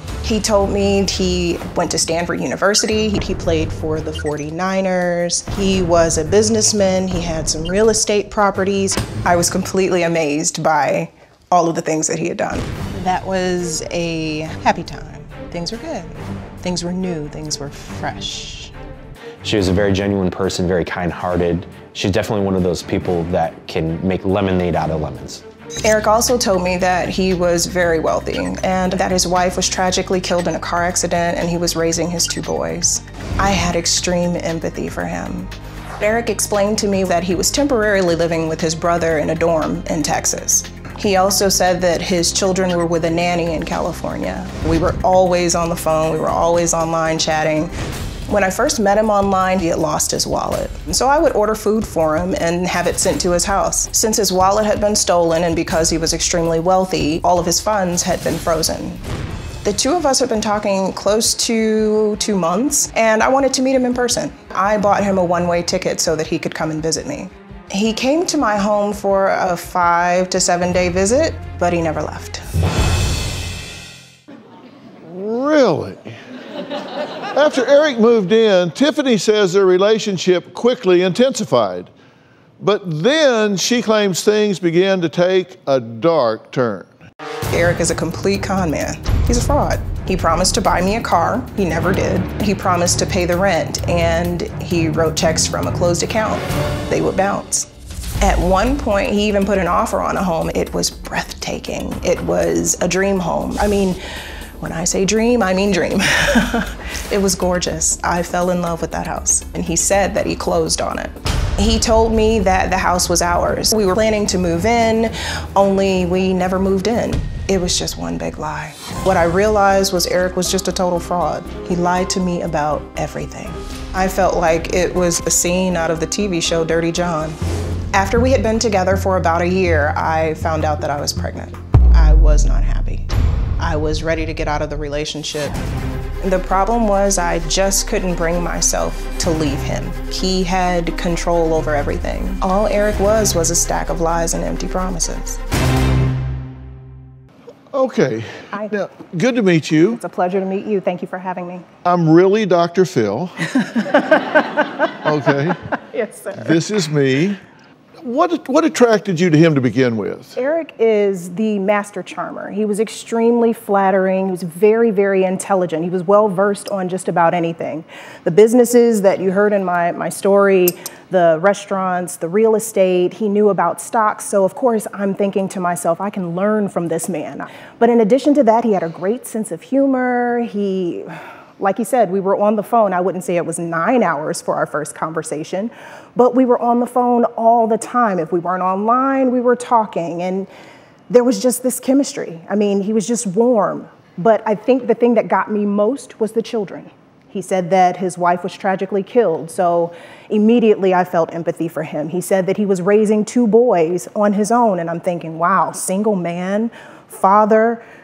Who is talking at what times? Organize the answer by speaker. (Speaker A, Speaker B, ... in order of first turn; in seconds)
Speaker A: 0.2-18.7, 25.8-47.7, 48.3-59.0, 59.6-72.4, 87.5-97.7, 98.2-104.0, 104.6-127.4, 127.9-135.6, 136.2-145.4, 149.8-151.7, 153.7-154.6, 155.7-156.6, 160.4-190.5, 191.1-207.8
Speaker B: 19.4-25.4
Speaker C: 75.1-76.2, 77.3-81.9, 82.6-86.9, 147.7-150.0, 151.8-153.6, 155.0-155.7, 156.4-157.4, 158.0-160.4